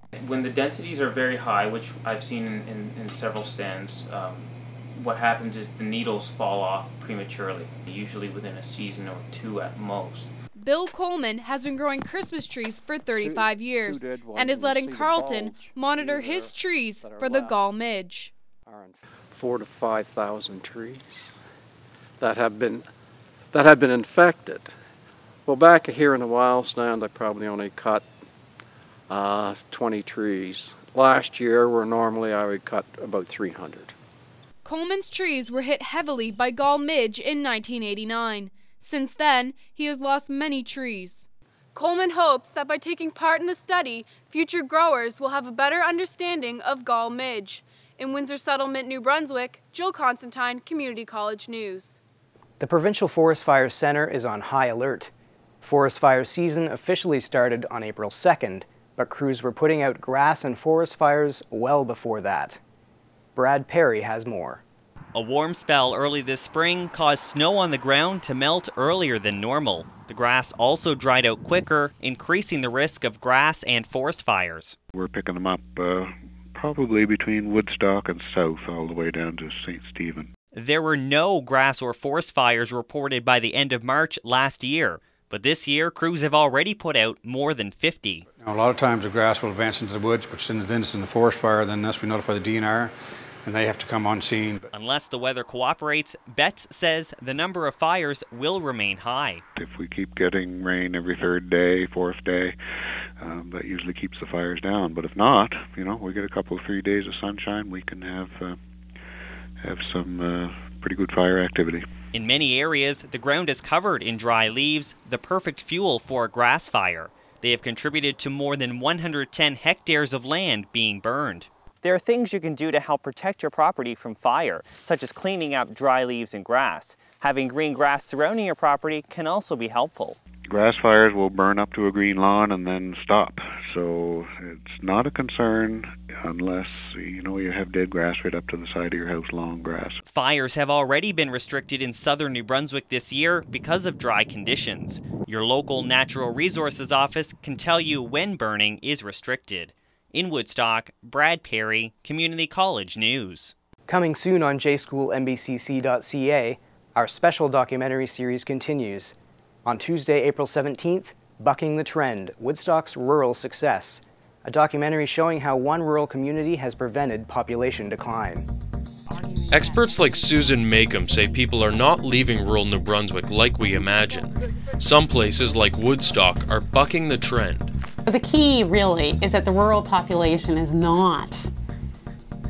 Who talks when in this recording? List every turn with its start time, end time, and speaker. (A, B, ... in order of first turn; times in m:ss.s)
0:00.2-0:10.3 A
0:10.6-0:18.3 B
0:13.2-0:17.6 C
0:18.7-0:21.3 C
0:22.2-0:22.9 C
0:23.5-0:24.7 C
0:25.5-0:28.0 C
0:29.1-0:33.9 C
0:34.6-0:52.0 B
0:52.6-0:55.1 D
0:55.6-1:02.6 D
1:03.4-1:04.6 D
1:05.2-1:14.8 E
1:15.0-1:20.3 F
1:20.6-1:28.2 E
1:28.4-1:32.9 G
1:33.4-1:34.7 G
1:34.7-1:39.4 E
1:39.6-1:42.6 F
1:43.2-1:48.6 F
1:49.6-1:51.9 F
1:52.1-2:10.2 E
2:10.5-2:20.0 F
2:20.1-2:33.5 E
2:33.9-2:39.1 D
2:39.6-2:48.4 D
2:49.1-2:50.7 H
2:49.5-2:57.7 I
2:58.1-3:01.5 H